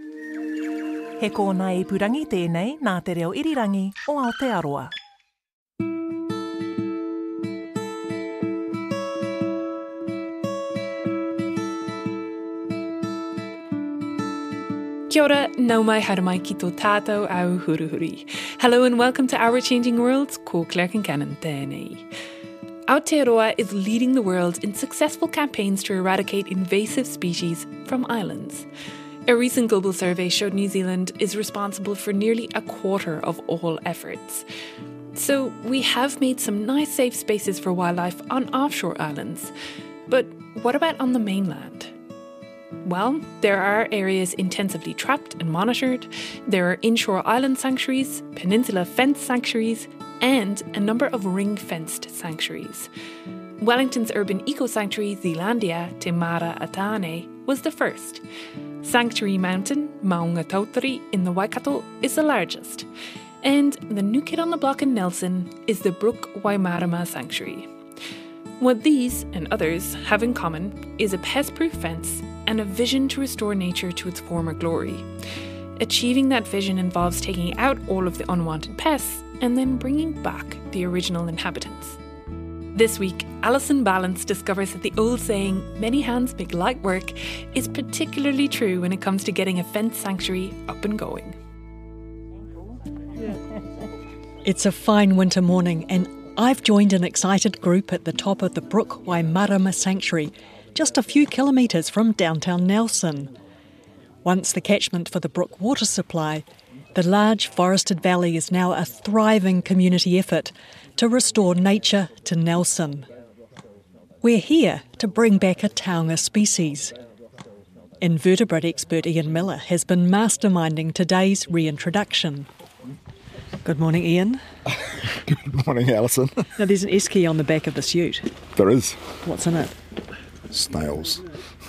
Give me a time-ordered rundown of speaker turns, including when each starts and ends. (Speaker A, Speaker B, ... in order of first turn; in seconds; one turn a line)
Speaker A: 1.2-4.9
Speaker B: 15.1-22.1
Speaker B: 22.9-28.7
Speaker B: 29.3-34.5
Speaker B: 35.1-39.5
Speaker B: 40.1-41.9
Speaker B: 42.8-52.9
Speaker B: 53.6-58.2
Speaker B: 58.8-62.9
Speaker B: 63.4-67.7
Speaker B: 68.6-75.1
Speaker B: 75.8-82.0
Speaker B: 82.7-91.4
Speaker C: 94.4-103.3
Speaker C: 104.2-113.1
Speaker C: 114.2-116.9
Speaker C: 118.0-122.5
Speaker C: 123.6-124.4
Speaker D: 125.2-126.5
Speaker C: 126.6-128.3
Speaker D: 128.5-129.2
Speaker C: 129.2-129.7
Speaker D: 130.5-131.2